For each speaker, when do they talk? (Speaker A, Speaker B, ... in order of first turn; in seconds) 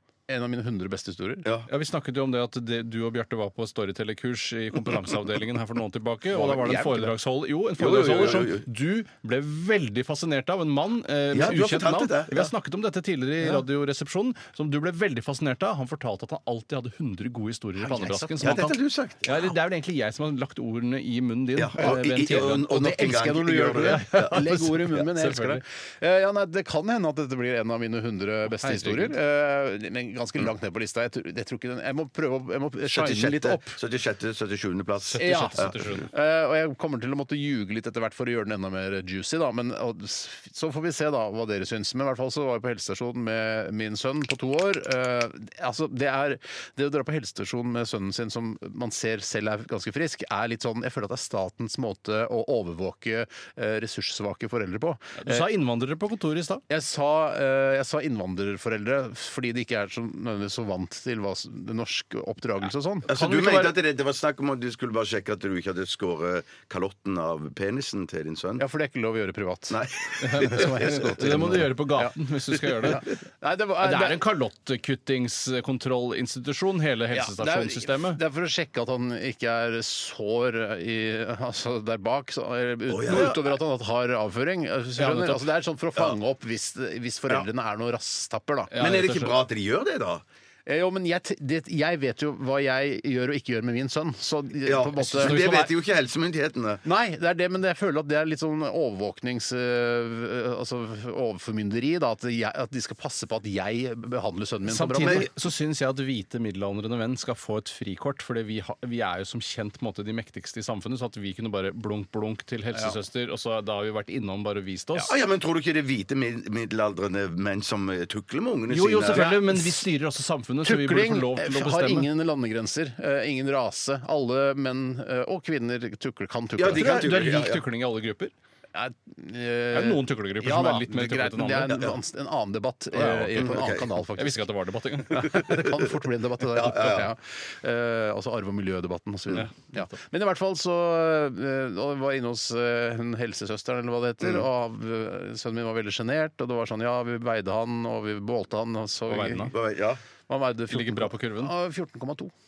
Speaker A: 0.3-1.5, 6.3-7.1, 17.8-18.6, 22.6-33.8, 35.2-55.5, 56.7-63.1, 68.6-72.1, 72.8-74.2, 77.1-88.7, 90.7-95.5, 96.8-105.3, 119.1-119.8, 120.6-127.1, 128.7-134.4, 135.1-149.5, 150.3-152.3
Speaker B: 1.7-22.7, 23.8-25.6, 28.5-29.1, 35.1-36.1, 55.2-56.6, 63.1-63.8, 70.2-73.1, 73.8-78.2, 83.1-83.4, 85.0-85.5, 88.7-89.3, 95.1-95.7, 104.7-115.1, 118.7-122.1, 126.7-128.3, 129.7-131.9, 132.9-133.6, 134.2-135.6, 139.3-139.9, 149.1-149.5, 150.7-151.5
Speaker C: 7.8-8.7, 11.3-12.5, 18.4-19.5, 21.6-24.4, 32.9-36.0, 63.1-68.6, 69.7-71.6, 82.9-83.4, 88.8-90.2, 94.6-96.8, 115.0-119.4, 126.6-127.6, 133.4-133.9, 136.4-137.1, 144.2-144.5, 149.5-150.0